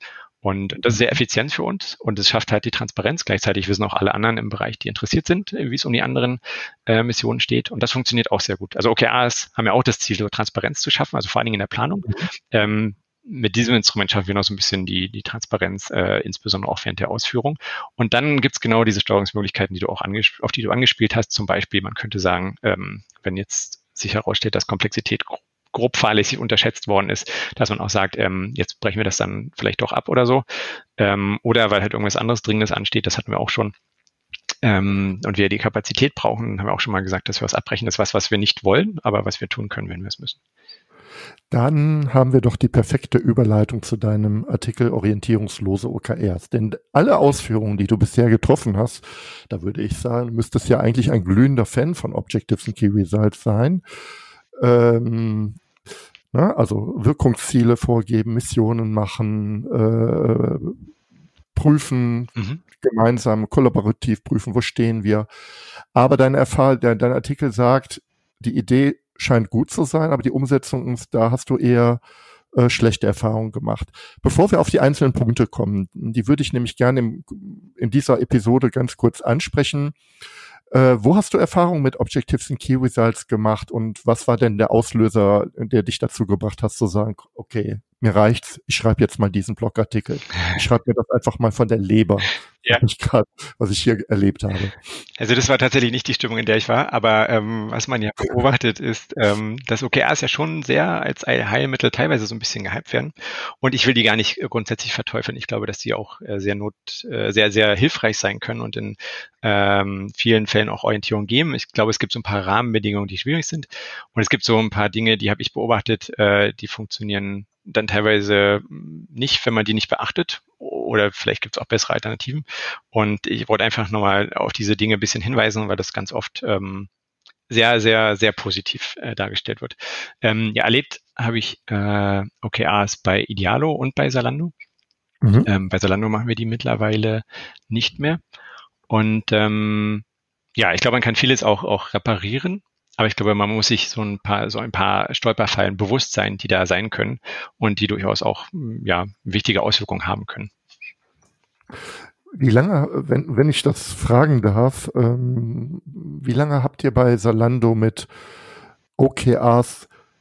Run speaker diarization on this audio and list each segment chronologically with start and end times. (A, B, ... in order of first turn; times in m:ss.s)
0:00.4-0:30.4 A
0:31.0-0:33.7 A
0:34.6-0:40.4 A
0:41.5-0:53.8 B
0:54.6-0:55.6 B
0:56.3-1:00.9 B
1:01.5-1:05.3 B
1:02.4-1:02.6 A
1:05.9-1:12.0 B
1:12.5-1:20.0 B
1:20.7-1:34.8 B
1:35.2-2:06.9 A
2:07.5-2:14.5 A
2:15.2-2:15.5 B
2:15.4-2:18.2 A
2:18.9-2:20.0 A
2:20.6-2:30.5 A
2:32.3-2:38.1 B
2:39.0-2:39.9 B